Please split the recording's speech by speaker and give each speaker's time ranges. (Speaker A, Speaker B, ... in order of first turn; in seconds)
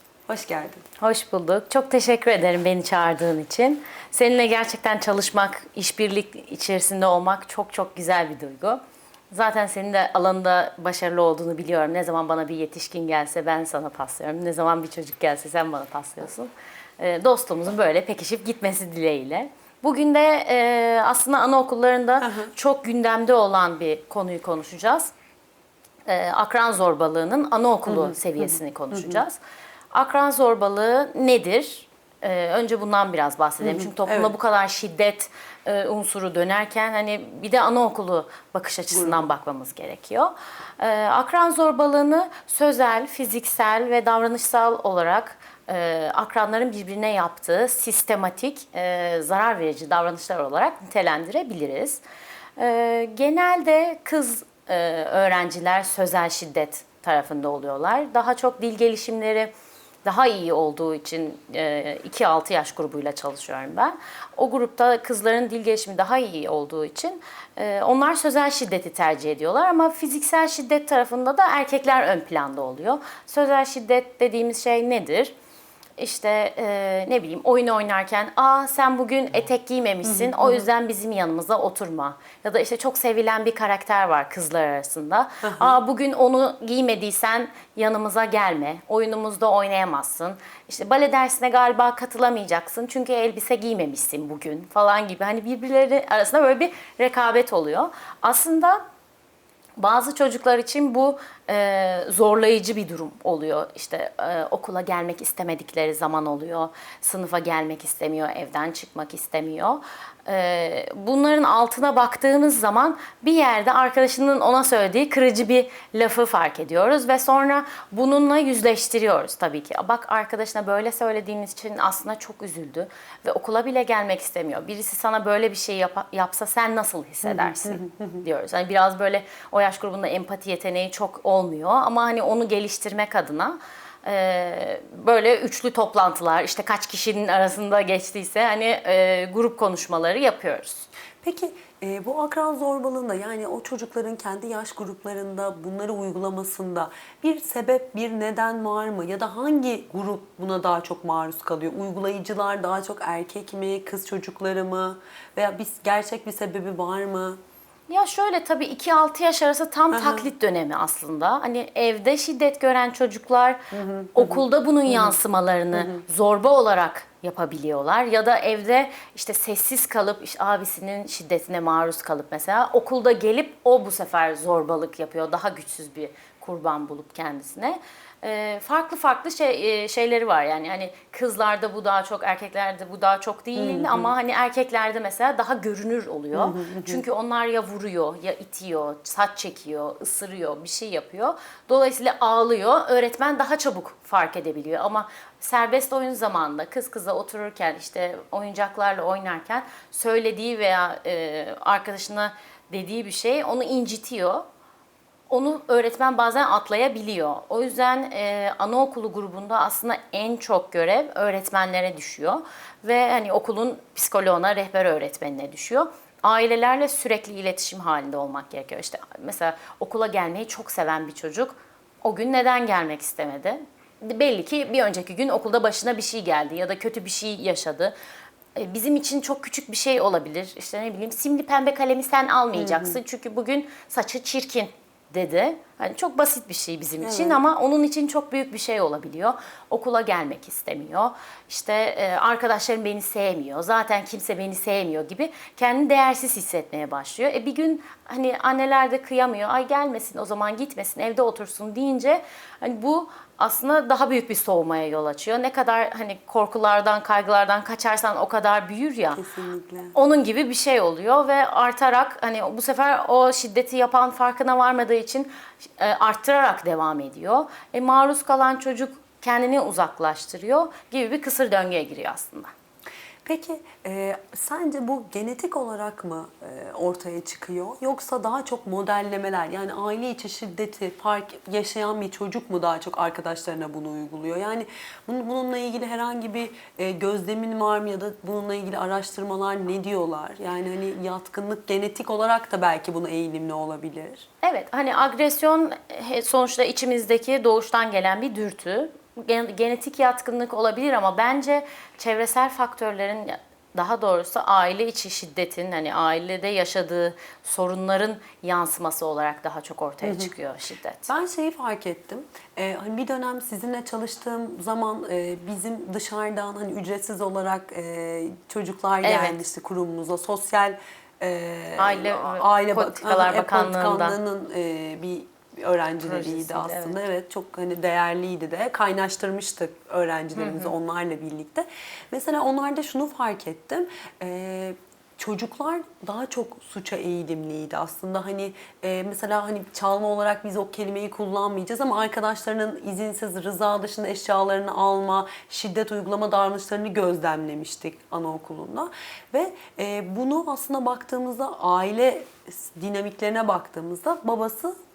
Speaker A: 0.3-0.8, 22.2-22.5, 27.9-29.2, 33.6-34.3, 38.9-39.3, 80.0-80.7, 85.4-85.8, 127.2-128.2, 141.2-157.4, 159.9-160.3, 163.7-165.2, 165.7-166.0, 183.6-184.1, 186.3-187.0, 232.6-233.0, 237.0-237.4, 259.1-259.9, 273.2-294.3, 310.1-310.3, 311.1-354.8
Speaker B: 1.0-8.8, 9.3-25.1, 26.1-29.4, 29.9-52.0, 52.6-59.5, 60.0-75.3, 76.0-98.8, 99.8-140.9, 157.9-163.6, 164.2-204.4, 205.3-227.9, 228.6-259.2, 259.9-272.5, 294.4-311.1, 319.0-319.4, 321.8-324.2, 326.0-326.9, 330.4-330.7